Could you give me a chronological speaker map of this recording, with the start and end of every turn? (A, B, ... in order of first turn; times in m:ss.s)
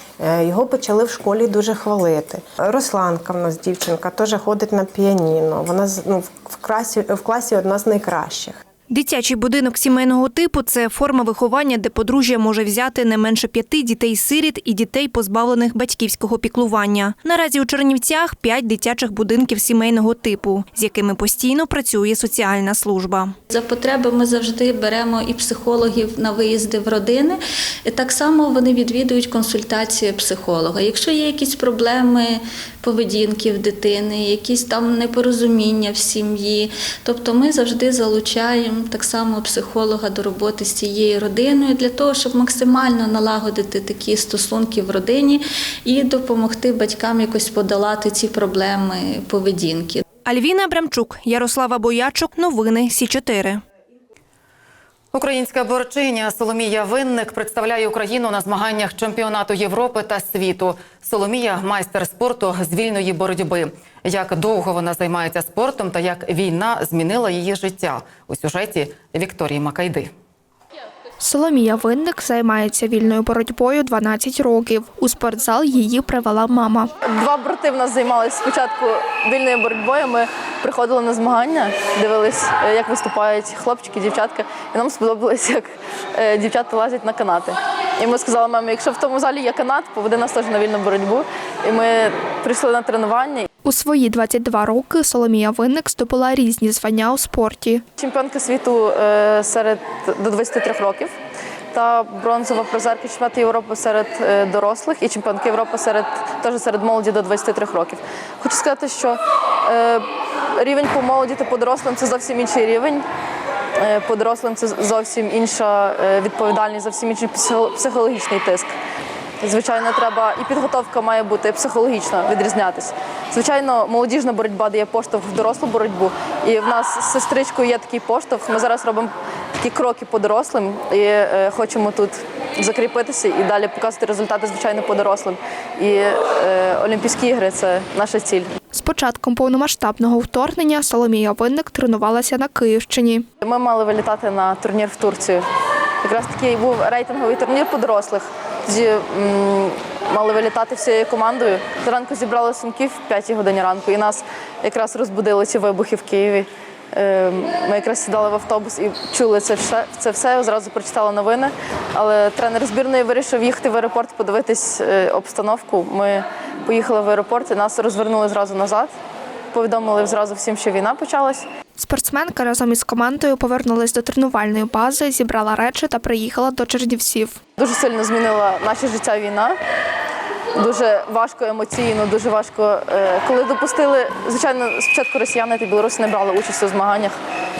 0:00.2-0:08.6 A
0:08.9-0:23.3 B
0:23.5-0:50.0 C
0:50.2-0:53.6 B
0:55.1-1:10.1 D
1:11.2-1:16.9 E
1:17.1-1:33.5 F
1:33.6-1:37.8 E
1:38.0-1:41.1 F
1:41.7-1:50.0 F
1:50.6-1:53.0 F
1:53.8-1:58.7 F
1:59.4-2:18.5 F
2:18.7-2:23.2 E
2:23.4-2:25.4 F
2:26.0-2:48.9 F
2:49.5-2:51.5 F
2:51.8-2:57.4 E
2:57.6-2:59.6 F
3:00.6-3:07.1 F